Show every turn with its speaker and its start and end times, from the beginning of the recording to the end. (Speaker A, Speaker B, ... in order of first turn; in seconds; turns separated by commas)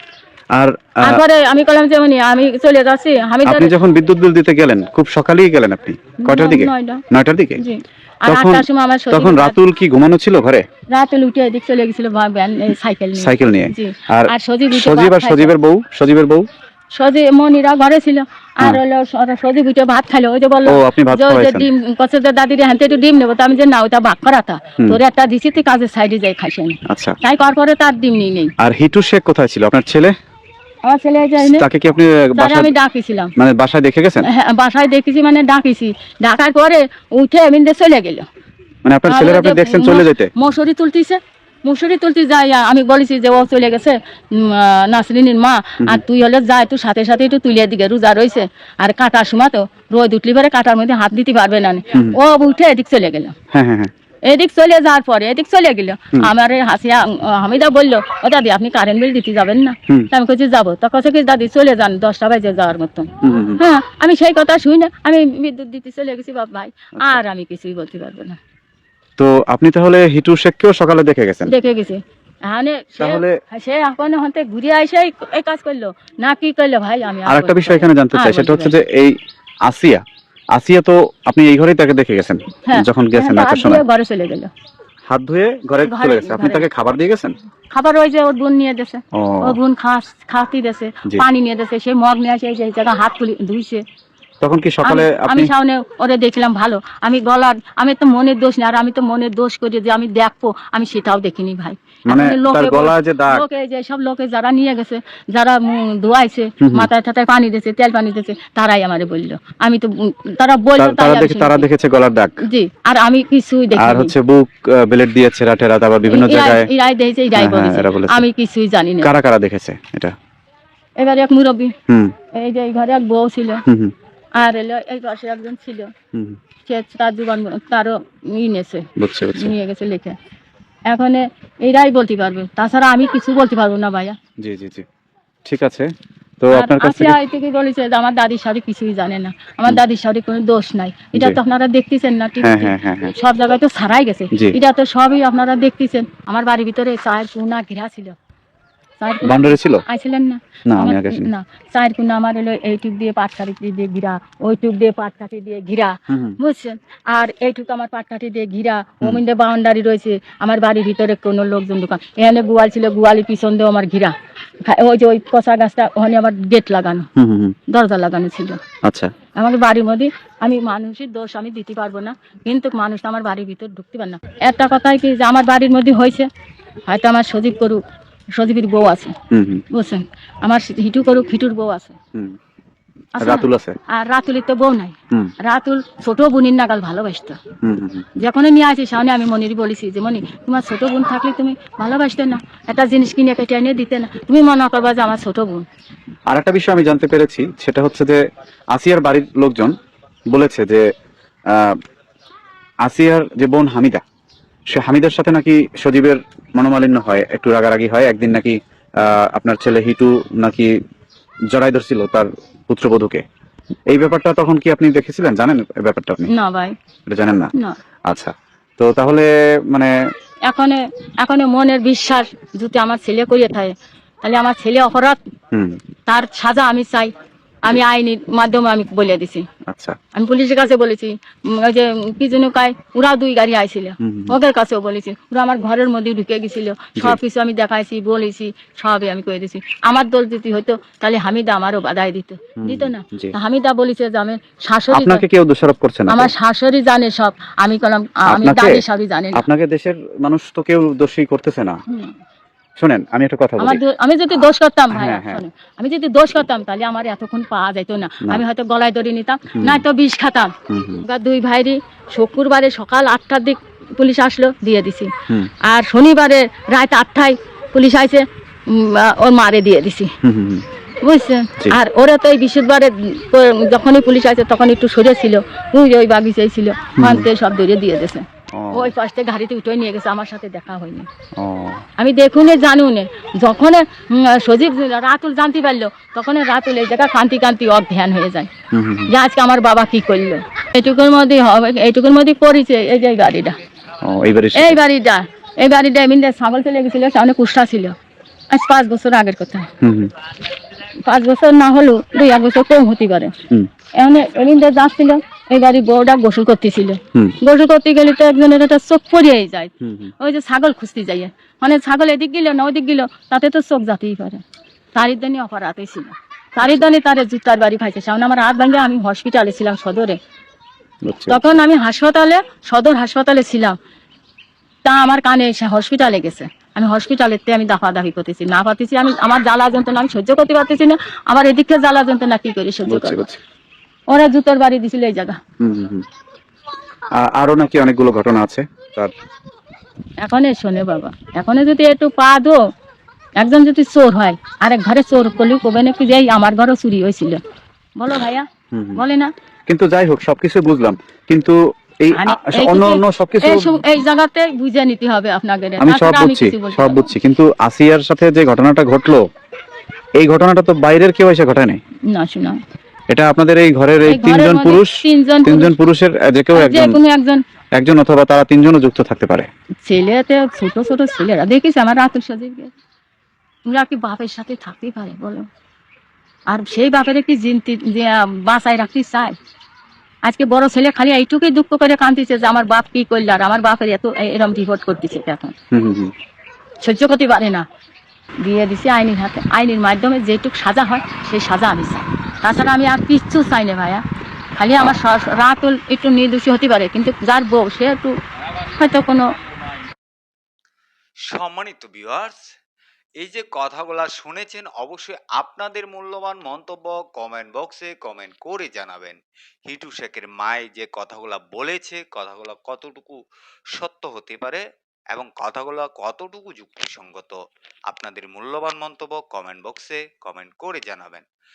Speaker A: 0.5-1.2, Speaker B: 1.0-3.7, Speaker A: 3.4-7.6, Speaker B: 6.2-7.0, Speaker B: 7.6-9.6, Speaker A: 8.2-10.6, Speaker B: 10.9-15.5, Speaker A: 13.2-16.4, Speaker B: 16.9-28.5, Speaker A: 20.7-21.7, Speaker A: 26.9-27.1, Speaker A: 28.6-30.1, Speaker B: 30.8-31.6, Speaker A: 31.4-32.7, Speaker B: 32.4-33.3, Speaker A: 33.4-34.3, Speaker B: 34.2-38.2, Speaker A: 38.8-40.3, Speaker B: 39.1-53.3, Speaker A: 53.5-53.9, Speaker B: 54.3-68.4, Speaker A: 63.2-63.6, Speaker A: 69.2-71.5, Speaker B: 71.5-78.7, Speaker A: 73.0-73.3, Speaker A: 77.3-79.2, Speaker A: 79.7-80.0, Speaker A: 80.5-83.8, Speaker B: 82.7-84.5, Speaker A: 85.1-87.3, Speaker B: 85.9-86.7, Speaker B: 87.7-93.8, Speaker A: 89.1-89.6, Speaker A: 94.4-95.5, Speaker B: 94.8-111.7, Speaker A: 102.1-103.4, Speaker A: 106.6-106.9, Speaker A: 110.8-112.4, Speaker B: 112.5-114.1, Speaker A: 113.7-116.7, Speaker B: 116.1-119.1, Speaker A: 117.3-118.2, Speaker A: 119.0-120.1, Speaker B: 121.0-121.7, Speaker B: 122.3-123.6, Speaker A: 123.7-123.9, Speaker B: 124.4-125.9, Speaker B: 126.6-130.1, Speaker A: 129.0-129.5, Speaker B: 130.9-134.1, Speaker A: 134.4-134.8, Speaker A: 135.4-135.9, Speaker A: 136.4-137.2, Speaker B: 136.5-148.2, Speaker A: 142.4-143.1, Speaker B: 149.0-167.1, Speaker A: 149.2-149.8, Speaker A: 150.7-151.3, Speaker A: 156.1-156.3, Speaker A: 167.2-167.6, Speaker B: 167.7-168.6, Speaker A: 168.8-169.1, Speaker B: 169.3-176.3, Speaker B: 176.9-177.8, Speaker B: 178.3-179.1, Speaker A: 179.3-179.6, Speaker B: 179.7-181.9, Speaker B: 183.1-187.4, Speaker A: 183.2-183.8, Speaker A: 187.6-188.1, Speaker B: 188.2-195.7, Speaker A: 196.3-198.2, Speaker A: 198.7-199.7, Speaker A: 200.3-200.8, Speaker A: 201.5-201.8, Speaker A: 202.8-204.0, Speaker A: 204.7-210.8, Speaker A: 211.5-213.2, Speaker A: 213.9-216.3, Speaker B: 216.3-216.7, Speaker A: 217.1-217.5, Speaker A: 218.1-219.9, Speaker B: 220.4-225.2, Speaker B: 226.1-227.1, Speaker B: 227.6-229.4, Speaker A: 229.7-229.9, Speaker B: 230.1-245.2, Speaker A: 234.0-234.3, Speaker A: 242.6-243.3, Speaker A: 244.9-246.3, Speaker B: 246.1-249.4, Speaker A: 248.3-248.8, Speaker A: 249.3-251.8, Speaker A: 252.8-253.8, Speaker B: 253.6-265.1, Speaker A: 254.3-255.4, Speaker A: 259.6-259.8, Speaker A: 260.7-261.0, Speaker B: 265.6-270.1, Speaker A: 270.2-270.6, Speaker B: 271.0-281.1, Speaker A: 277.0-277.3, Speaker A: 278.5-278.9, Speaker A: 281.4-281.8, Speaker B: 282.0-288.5, Speaker A: 288.7-289.1, Speaker B: 289.1-293.5, Speaker A: 294.0-294.8, Speaker B: 294.5-297.9, Speaker B: 298.5-299.7, Speaker A: 299.8-300.1, Speaker B: 301.0-303.3, Speaker B: 304.0-314.4, Speaker B: 314.9-320.2, Speaker A: 316.6-316.9, Speaker A: 321.1-321.5, Speaker B: 321.3-323.8, Speaker B: 324.8-333.2, Speaker A: 332.9-333.4, Speaker B: 334.1-335.4, Speaker A: 335.6-336.0, Speaker A: 337.2-339.1, Speaker B: 340.2-342.6, Speaker B: 343.4-347.4, Speaker B: 348.0-349.3, Speaker A: 348.7-349.0, Speaker A: 349.7-353.8, Speaker B: 352.1-357.1, Speaker A: 355.8-359.2, Speaker A: 360.2-361.8, Speaker B: 362.1-362.6, Speaker A: 363.1-367.0, Speaker B: 364.1-365.7, Speaker B: 366.5-367.4, Speaker A: 367.8-369.5, Speaker B: 369.8-372.7, Speaker B: 373.6-375.4, Speaker B: 376.5-379.3, Speaker B: 380.2-385.5, Speaker A: 385.7-386.1, Speaker B: 386.8-387.6, Speaker B: 388.4-394.0, Speaker B: 394.6-398.1, Speaker B: 398.7-399.3, Speaker C: 401.3-402.4, Speaker C: 403.2-413.2, Speaker C: 413.7-417.4, Speaker C: 417.9-421.2